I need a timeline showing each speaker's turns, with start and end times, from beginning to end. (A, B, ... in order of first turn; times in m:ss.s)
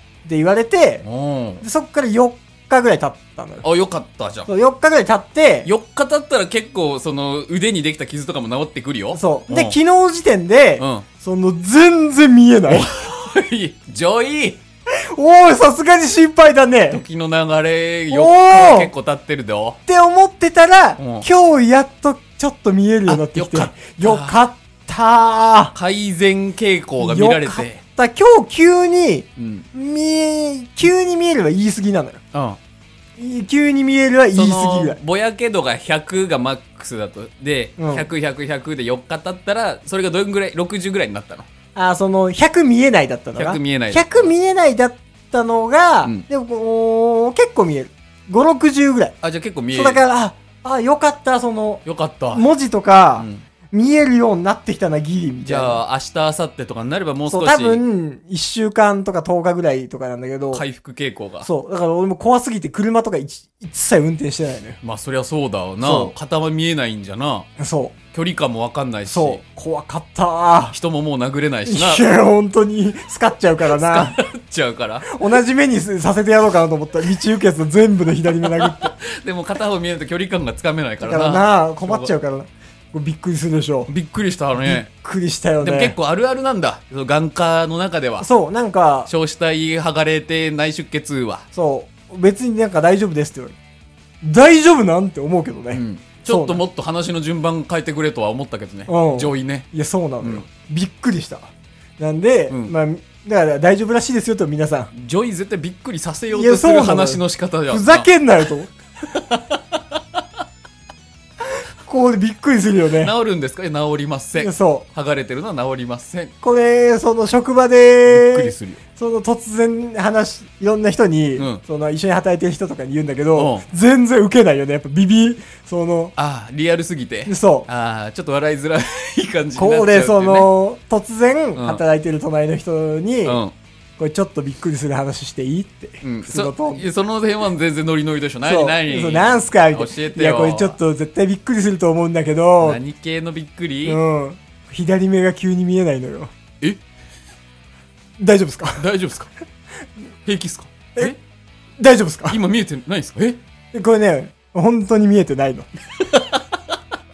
0:00.2-0:01.0 A
0:01.0-0:01.6 B
0:01.6-0:03.6 A
0:03.6-0:04.5 B
0:04.5-0:05.7 A
0:05.6-0:09.8 B
0:09.1-0:12.9 A
0:10.8-0:11.0 B
0:12.7-0:14.6 B
0:14.9-0:17.0 A
0:16.9-0:19.8 B
0:18.1-0:18.9 A
0:19.9-0:25.7 A
0:21.0-0:21.2 B
0:23.0-0:24.4 B
0:25.7-0:27.8 B
0:27.0-0:32.2 A
0:29.4-0:29.7 B
0:32.3-0:32.6 B
0:33.2-0:35.0 A
0:34.3-0:41.5 B
0:37.8-0:38.0 A
0:41.7-0:49.1 A
0:43.3-0:44.3 B
0:49.2-0:50.0 B
0:49.7-0:55.8 A
0:51.8-0:52.4 B
0:53.2-0:53.4 B
0:55.4-0:57.8 B
0:57.3-1:00.6 A
1:00.5-1:01.5 B
1:01.4-1:04.8 A
1:04.8-1:07.5 B
1:05.8-1:06.1 A
1:07.6-1:07.9 A
1:08.1-1:09.4 B
1:09.1-1:10.8 A
1:10.7-1:12.0 B
1:11.7-1:14.2 A
1:13.6-1:15.1 B
1:15.0-1:18.9 A
1:18.4-1:22.1 B
1:21.0-1:23.9 A
1:23.9-1:24.9 B
1:24.6-1:25.9 A
1:25.6-1:28.3 B
1:28.2-1:29.1 A
1:29.1-1:31.4 B
1:31.5-1:33.6 A
1:34.2-1:36.6 A
1:35.7-1:39.7 B
1:38.9-1:44.9 A
1:44.9-1:48.1 B
1:46.3-1:48.7 A
1:49.0-1:50.2 B
1:51.8-1:53.1 A
1:52.9-1:56.3 B
1:54.4-1:54.9 A
1:56.4-2:06.1 A
1:58.0-1:58.8 B
2:01.4-2:01.6 B
2:03.4-2:03.6 B
2:06.2-2:10.5 B
2:07.3-2:07.7 A
2:09.6-2:13.4 A
2:11.6-2:11.8 B
2:13.2-2:13.5 B
2:14.0-2:16.8 A
2:16.0-2:20.8 B
2:18.4-2:22.8 A
2:22.6-2:24.0 B
2:23.8-2:26.3 A
2:28.2-2:28.8 A
2:28.8-2:29.3 B
2:30.2-2:31.2 B
2:31.8-2:32.4 A
2:32.3-2:33.4 B
2:33.7-2:35.7 A
2:36.1-2:36.4 B